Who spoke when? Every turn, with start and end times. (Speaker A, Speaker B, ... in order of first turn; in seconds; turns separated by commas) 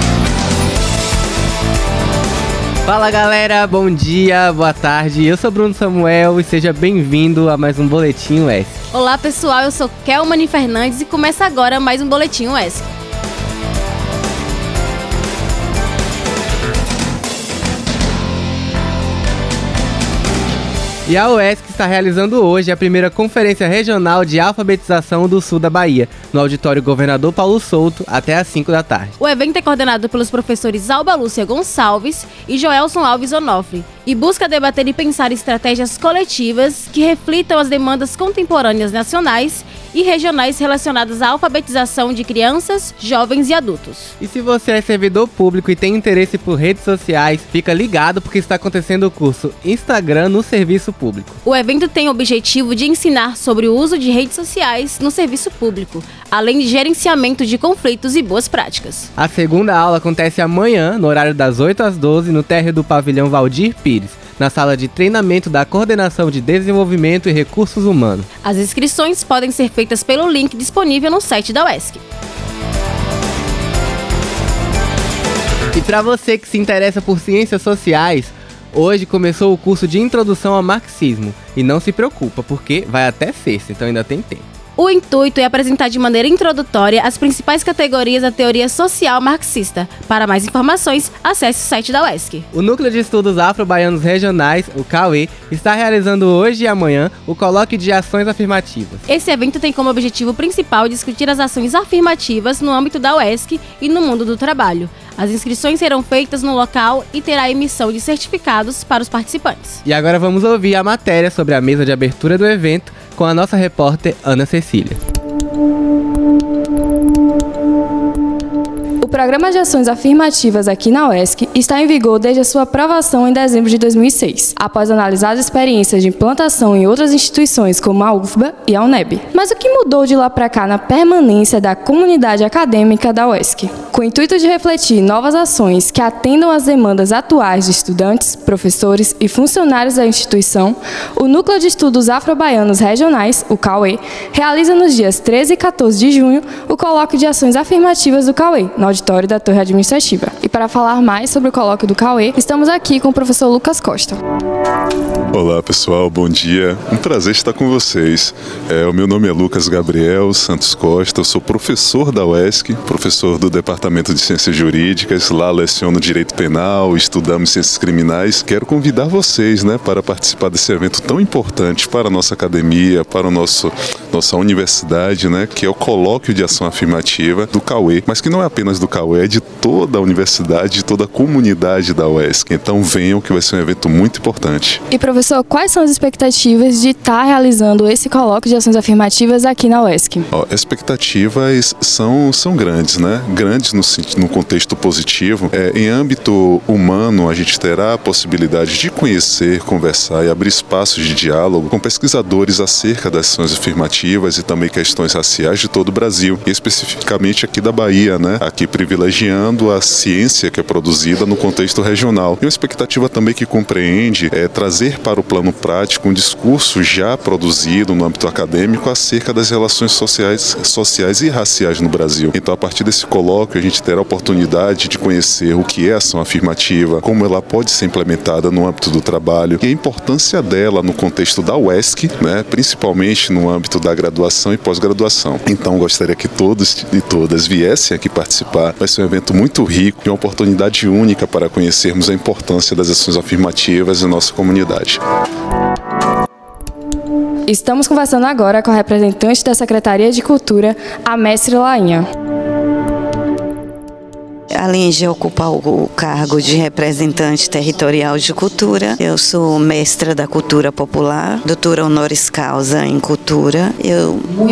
Speaker A: 2.8-8.8, Speaker B: 8.9-12.9, Speaker A: 21.1-29.1, Speaker B: 29.2-44.1, Speaker A: 44.2-51.4, Speaker B: 51.4-59.1, Speaker A: 59.2-68.3, Speaker B: 68.4-72.0, Speaker A: 75.7-84.5, Speaker B: 84.8-92.5, Speaker A: 92.5-99.0, Speaker B: 99.1-109.8, Speaker A: 109.8-115.0, Speaker C: 119.0-154.2, Speaker D: 155.3-184.8, Speaker C: 184.9-190.2, Speaker D: 190.3-245.0, Speaker C: 247.5-252.0, Speaker E: 254.5-264.3